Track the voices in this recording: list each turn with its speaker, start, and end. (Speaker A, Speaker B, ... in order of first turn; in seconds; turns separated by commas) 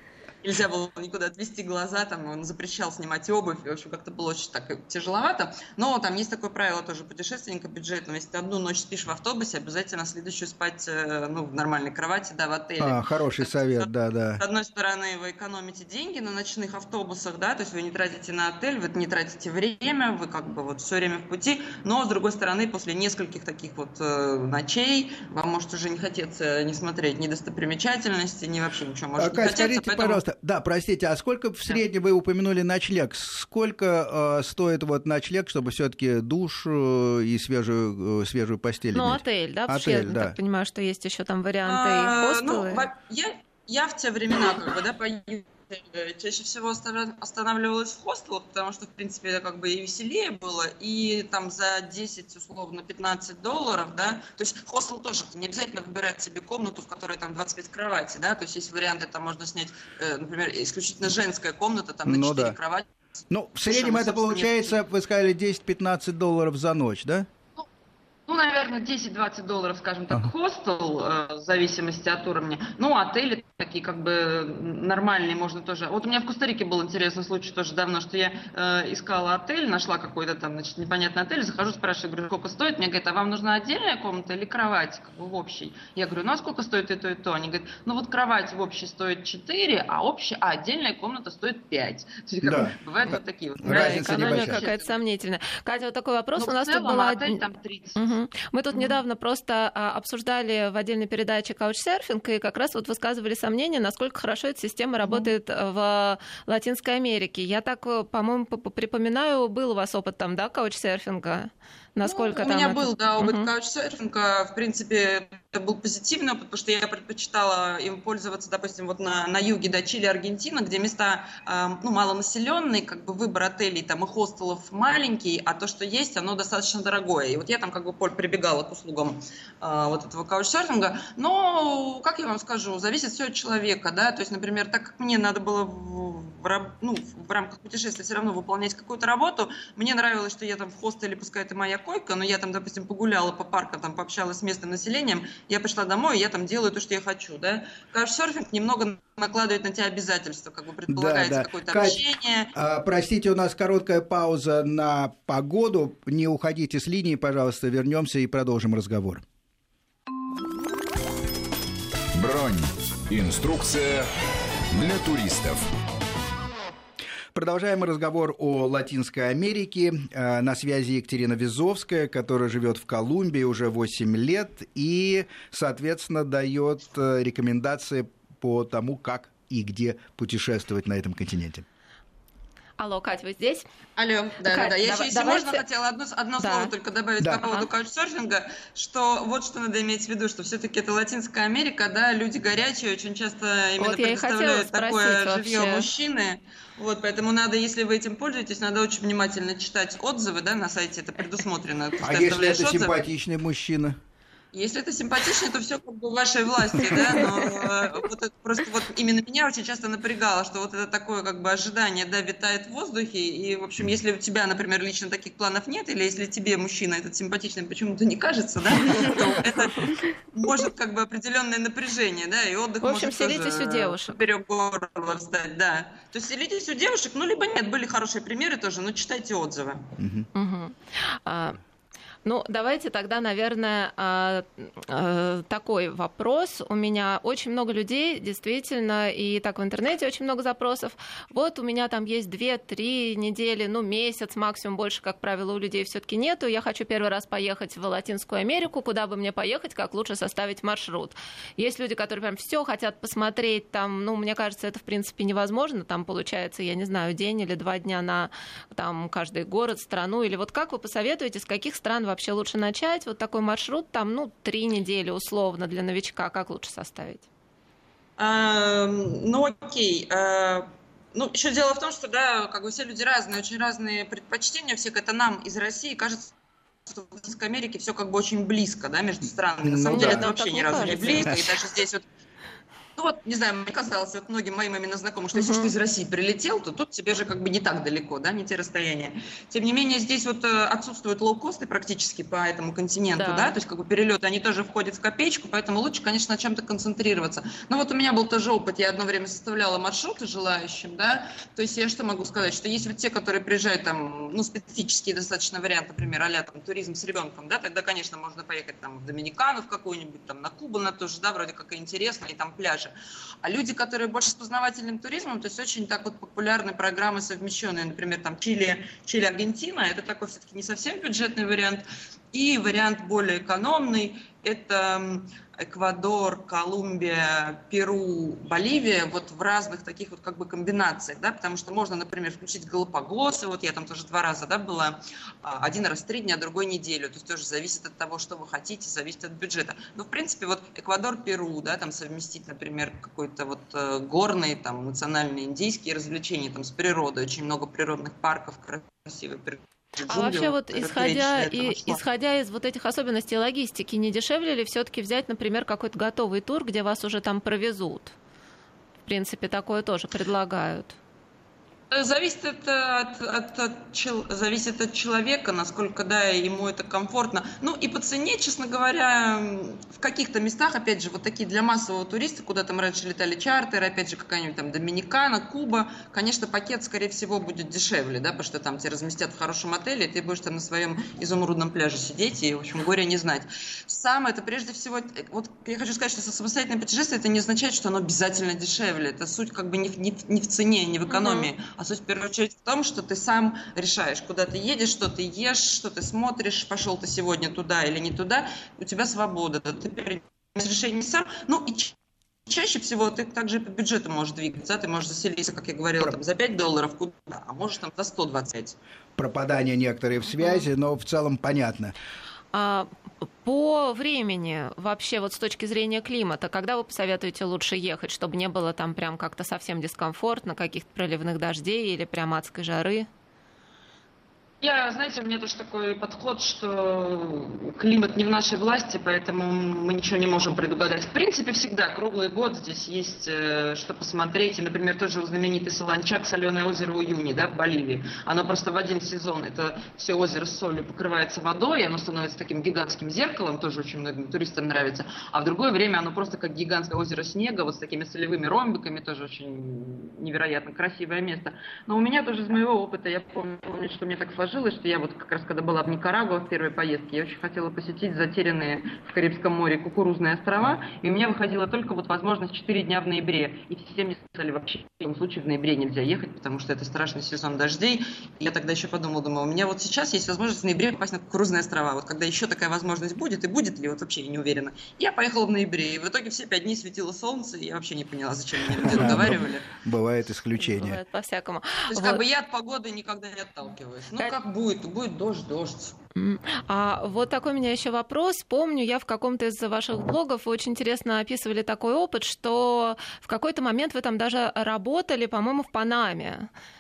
Speaker A: 0.4-13.9, Speaker B: 12.8-14.4, Speaker A: 14.4-30.2, Speaker B: 29.2-40.4, Speaker C: 38.9-42.9, Speaker A: 41.7-62.9, Speaker B: 62.1-62.6, Speaker B: 63.3-67.3, Speaker A: 63.7-64.8, Speaker A: 68.3-94.9, Speaker B: 92.4-94.6, Speaker C: 93.7-97.4, Speaker A: 96.4-98.0, Speaker C: 98.0-113.5, Speaker A: 105.0-105.3, Speaker A: 112.0-152.5, Speaker B: 150.9-152.0, Speaker B: 152.5-159.2, Speaker D: 162.2-164.1, Speaker D: 164.7-165.7, Speaker B: 167.3-181.7, Speaker C: 182.8-183.7, Speaker A: 184.0-202.9, Speaker C: 184.5-185.6, Speaker C: 186.4-186.7, Speaker C: 193.8-195.9, Speaker B: 202.0-204.0, Speaker A: 204.5-229.9, Speaker C: 222.8-224.2, Speaker B: 230.0-230.3, Speaker C: 230.3-231.6, Speaker C: 232.2-267.3, Speaker A: 268.2-276.3, Speaker A: 276.9-282.1, Speaker B: 279.6-280.3, Speaker C: 279.9-281.5, Speaker B: 281.1-281.3, Speaker A: 283.0-352.0, Speaker C: 285.3-285.7, Speaker C: 293.2-293.6, Speaker C: 350.1-358.1, Speaker C: 359.1-361.0, Speaker A: 361.9-401.9, Speaker C: 391.1-391.5, Speaker A: 402.5-408.8, Speaker B: 409.2-411.9, Speaker C: 410.4-410.7, Speaker C: 412.5-412.9, Speaker C: 413.4-423.1, Speaker A: 424.6-479.7, Speaker B: 478.8-481.0, Speaker C: 478.9-479.3, Speaker C: 480.6-482.2, Speaker A: 481.9-486.0, Speaker C: 486.2-496.5